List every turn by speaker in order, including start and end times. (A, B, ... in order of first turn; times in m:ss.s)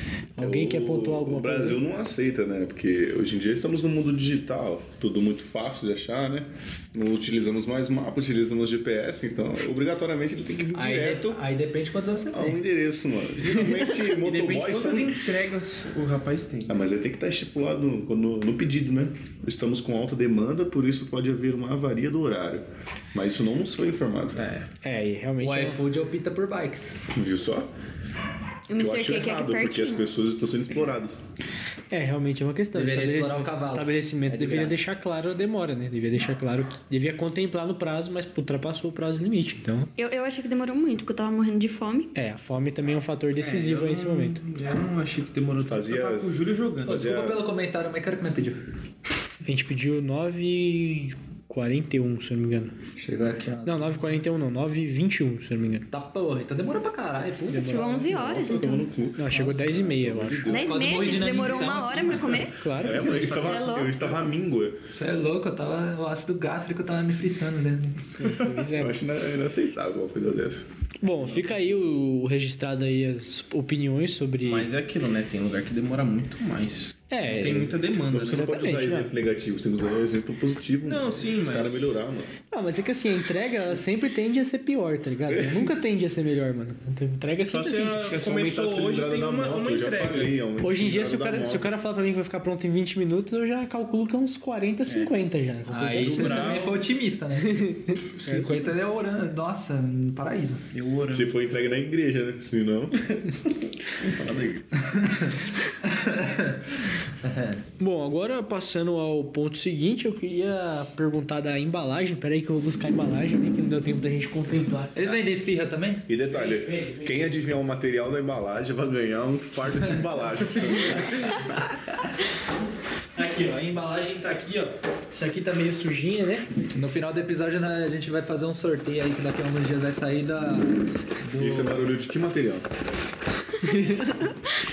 0:00.4-0:01.8 A
0:00.4-0:11.4 B
0:10.7-0:12.6 C
0:12.3-0:15.2 B
0:14.0-0:16.8 D
0:16.7-0:24.4 B
0:24.6-0:25.8 A
0:25.4-0:27.0 C
0:27.1-0:27.7 B
0:28.7-0:30.0 E
0:28.8-0:31.2 B
0:31.9-0:39.9 A
0:32.7-0:34.8 C
0:40.0-0:42.1 E
0:42.1-0:44.5 A
0:43.4-0:47.1 D
0:45.6-0:46.3 B
0:46.8-0:47.5 B
0:46.8-0:48.6 C
0:49.4-0:52.7 A
0:53.0-0:54.2 C
0:53.6-0:55.9 A
0:55.9-0:57.9 C
0:57.6-0:58.9 E
0:57.6-1:01.3 B
0:57.7-0:58.0 A
0:59.1-1:00.5 A
1:00.4-1:02.3 C
1:00.4-1:04.0 E
1:02.5-1:03.1 A
1:02.8-1:04.8 B
1:02.8-1:03.9 D
1:04.9-1:08.1 C
1:08.2-1:09.0 A
1:08.2-1:10.6 B
1:11.0-1:14.7 A
1:14.4-1:18.5 D
1:17.1-1:19.1 A
1:17.2-1:17.7 C
1:18.1-1:22.3 B
1:20.8-1:21.8 D
1:22.5-1:28.1 A
1:25.3-1:25.7 B
1:27.5-1:30.4 D
1:28.0-1:31.7 B
1:30.6-1:36.7 A
1:35.7-1:40.6 C
1:35.8-1:36.8 D
1:37.4-1:38.8 A
1:40.7-1:41.3 D
1:41.1-1:43.1 B
1:44.0-1:44.8 B
1:45.0-1:47.6 C
1:47.8-1:55.2 A
1:54.9-1:56.1 C
1:56.1-2:01.4 B
1:56.3-1:57.2 A
2:00.7-2:01.4 A
2:03.2-2:06.5 A
2:06.7-2:11.9 C
2:11.4-2:12.6 B
2:13.6-2:14.4 A